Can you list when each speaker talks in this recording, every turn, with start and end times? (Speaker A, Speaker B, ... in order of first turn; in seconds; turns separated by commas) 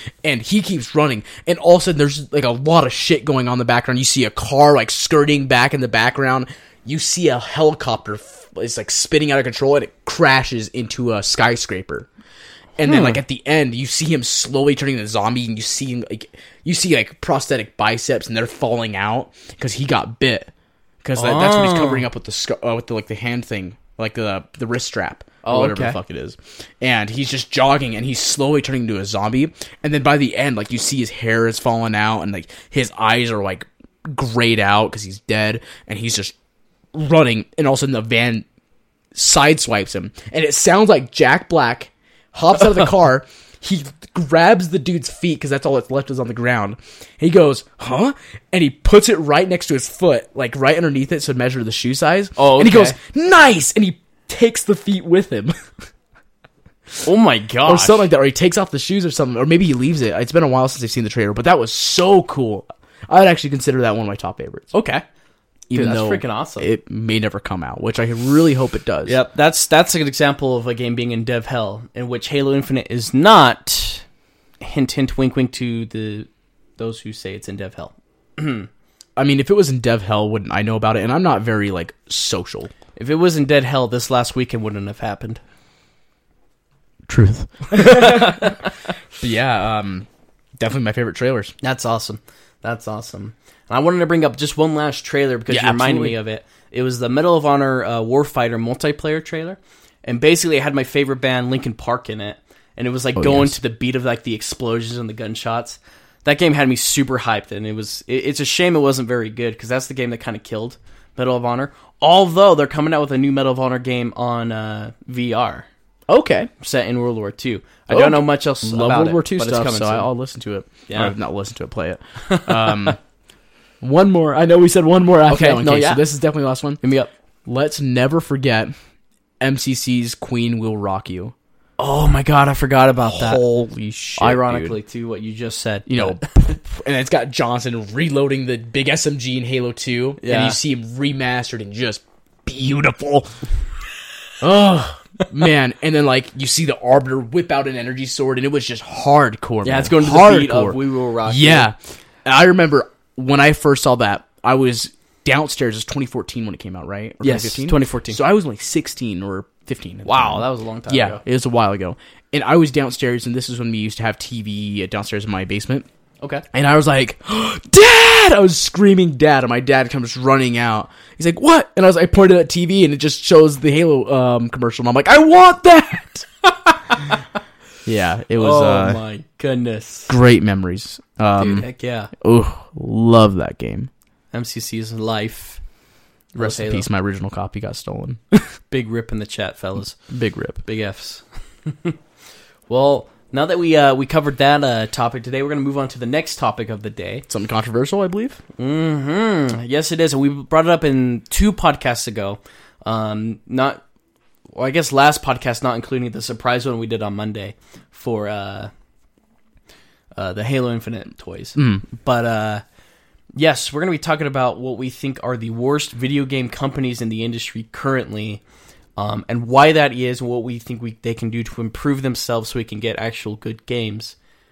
Speaker A: 0.2-12.1, Speaker A: 12.8-20.5, Speaker B: 12.8-13.2, Speaker A: 21.0-36.3, Speaker B: 21.2-22.1, Speaker B: 25.4-26.0, Speaker A: 36.9-38.5, Speaker A: 39.1-55.5, Speaker B: 52.4-53.0, Speaker B: 57.0-58.1, Speaker A: 57.6-64.7, Speaker B: 64.7-65.0, Speaker A: 65.7-69.2, Speaker B: 65.7-66.7, Speaker B: 69.1-74.0, Speaker B: 74.6-78.7, Speaker A: 79.2-82.7, Speaker B: 83.0-85.4, Speaker A: 87.1-88.6, Speaker B: 87.7-88.7, Speaker A: 89.2-90.1, Speaker A: 90.6-91.5, Speaker B: 91.6-115.7, Speaker A: 95.5-96.2, Speaker A: 103.2-103.6, Speaker A: 116.1-116.5, Speaker B: 116.6-120.1, Speaker A: 117.9-123.0, Speaker B: 120.9-121.1, Speaker B: 122.2-123.0, Speaker A: 123.8-126.8, Speaker B: 125.3-126.0, Speaker B: 126.8-127.1, Speaker A: 127.5-128.7, Speaker A: 129.4-131.3, Speaker B: 131.8-133.4, Speaker A: 133.1-134.8, Speaker B: 134.2-136.6, Speaker A: 135.9-143.3, Speaker B: 140.2-140.6, Speaker A: 144.4-165.9, Speaker B: 149.6-151.7, Speaker B: 157.2-158.2, Speaker B: 160.1-161.2, Speaker A: 166.5-176.3, Speaker B: 176.5-177.2, Speaker A: 177.9-179.0, Speaker B: 178.4-180.2, Speaker A: 180.1-181.7, Speaker B: 181.4-182.1, Speaker A: 182.2-183.9, Speaker B: 184.3-185.6, Speaker B: 186.3-186.9, Speaker A: 186.4-188.4, Speaker B: 188.7-190.0, Speaker A: 190.1-190.6, Speaker B: 190.7-192.0, Speaker B: 192.7-197.3, Speaker A: 197.3-198.4, Speaker B: 198.6-203.8, Speaker B: 204.5-208.7, Speaker B: 210.2-212.6, Speaker A: 211.6-211.8, Speaker B: 213.4-218.4, Speaker B: 219.0-224.2